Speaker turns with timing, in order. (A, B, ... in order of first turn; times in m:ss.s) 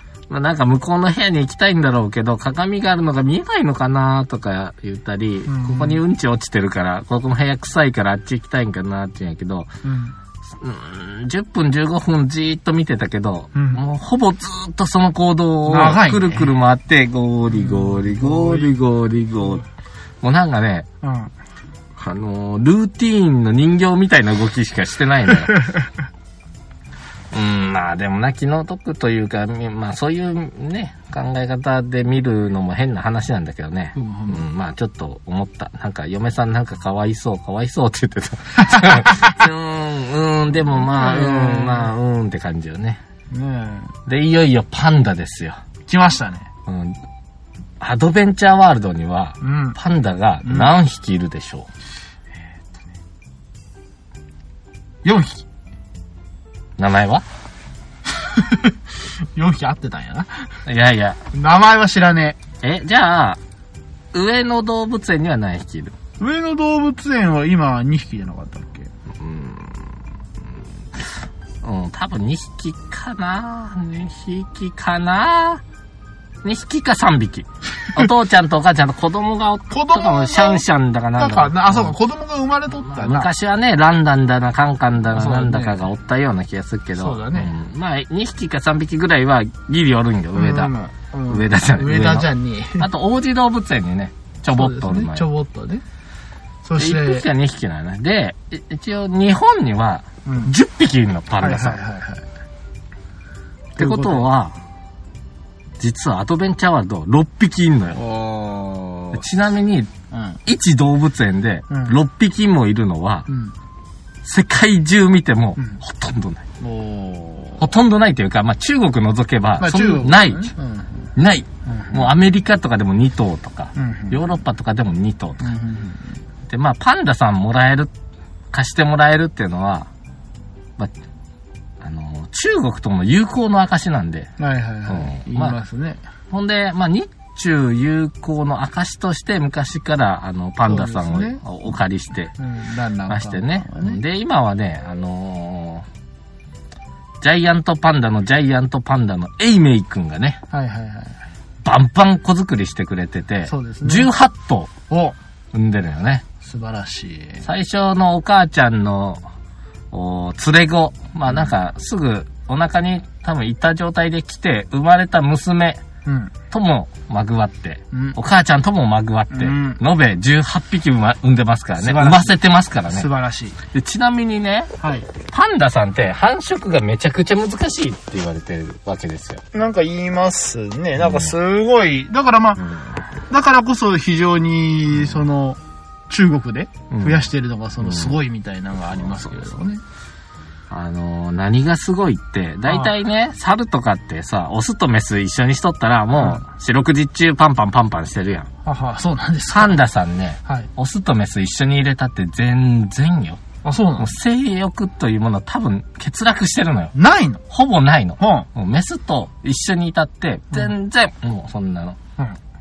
0:00.3-0:09.7 A
0:05.5-0:06.0 B
0:09.8-0:10.2 B
0:10.6-0:19.6 A
0:13.6-0:13.8 B
0:15.7-0:16.5 B
0:17.5-0:18.8 B
0:20.2-0:20.9 A
0:21.0-0:21.3 B
0:22.0-0:25.6 A
0:25.5-0:25.9 B
0:27.3-0:43.0 A
0:34.0-0:34.4 B
0:38.7-0:39.1 B
0:40.7-0:41.9 B
0:43.3-0:43.9 B
0:44.1-0:45.6 A
0:45.9-0:46.5 B
0:46.7-0:47.0 A
0:47.8-0:51.7 A
0:49.4-0:49.8 B
0:50.4-0:50.7 B
0:55.0-0:55.4 B
0:56.8-0:57.2 A
0:58.1-1:00.5 B
1:00.7-1:01.2 A
1:01.3-1:02.4 B
1:02.6-1:03.4 A
1:04.1-1:05.9 A
1:06.2-1:08.9 B
1:09.2-1:09.9 A
1:11.6-1:15.6 A
1:16.4-1:21.9 A
1:19.7-1:20.6 B
1:21.2-1:23.3 B
1:22.8-1:30.7 A
1:25.1-1:25.8 B
1:27.0-1:27.5 B
1:30.3-1:32.9 B
1:31.3-1:35.3 A
1:34.5-1:35.8 B
1:36.6-1:37.3 B
1:36.8-1:41.8 A
1:40.2-1:40.5 B
1:41.4-1:42.3 B
1:43.8-1:44.3 B
1:43.8-1:44.6 A
1:45.8-1:48.0 A
1:47.9-1:49.2 B
1:49.1-1:49.9 A
1:50.1-1:50.4 B
1:50.4-1:53.3 A
1:51.7-1:52.0 B
1:53.3-1:53.5 B
1:54.2-1:56.5 A
1:56.6-1:57.7 B
1:57.6-2:00.5 A
1:59.6-2:01.1 B
2:01.2-2:05.5 A
2:01.7-2:02.1 B
2:03.8-2:04.2 B
2:05.4-2:06.2 B
2:06.5-2:07.9 A
2:08.5-2:09.9 A
2:11.8-2:14.3 A
2:14.4-2:16.0 B
2:14.9-2:15.6 A
2:16.3-2:22.4 A
2:20.6-2:21.4 B
2:22.4-2:24.0 B
2:23.1-2:25.9 A
2:27.2-2:30.4 A
2:30.5-2:31.2 B
2:31.6-2:34.7 A
2:33.5-2:34.1 B
2:34.9-2:35.2 B
2:35.5-2:36.2 A
2:36.4-2:37.4 B
2:37.4-2:39.2 A
2:39.9-2:45.8 A
2:46.0-2:46.3 B
2:46.5-2:53.1 A
2:47.9-2:48.2 B
2:49.3-2:49.8 B
2:51.8-2:52.4 B
2:52.9-2:53.6 B
2:53.7-2:59.4 A
2:54.8-2:55.1 B
2:59.5-3:02.6 B
3:01.0-3:01.3 A
3:03.3-3:09.8 B
3:06.9-3:07.2 A
3:07.8-3:08.2 A
3:09.0-3:09.6 A
3:10.7-3:18.5 A
3:12.7-3:12.9 B
3:16.2-3:16.4 B
3:18.6-3:19.8 B
3:19.5-3:23.4 A
3:23.6-3:24.1 B
3:24.0-3:27.0 A
3:27.0-3:27.4 B
3:27.5-3:32.0 A
3:28.2-3:28.5 B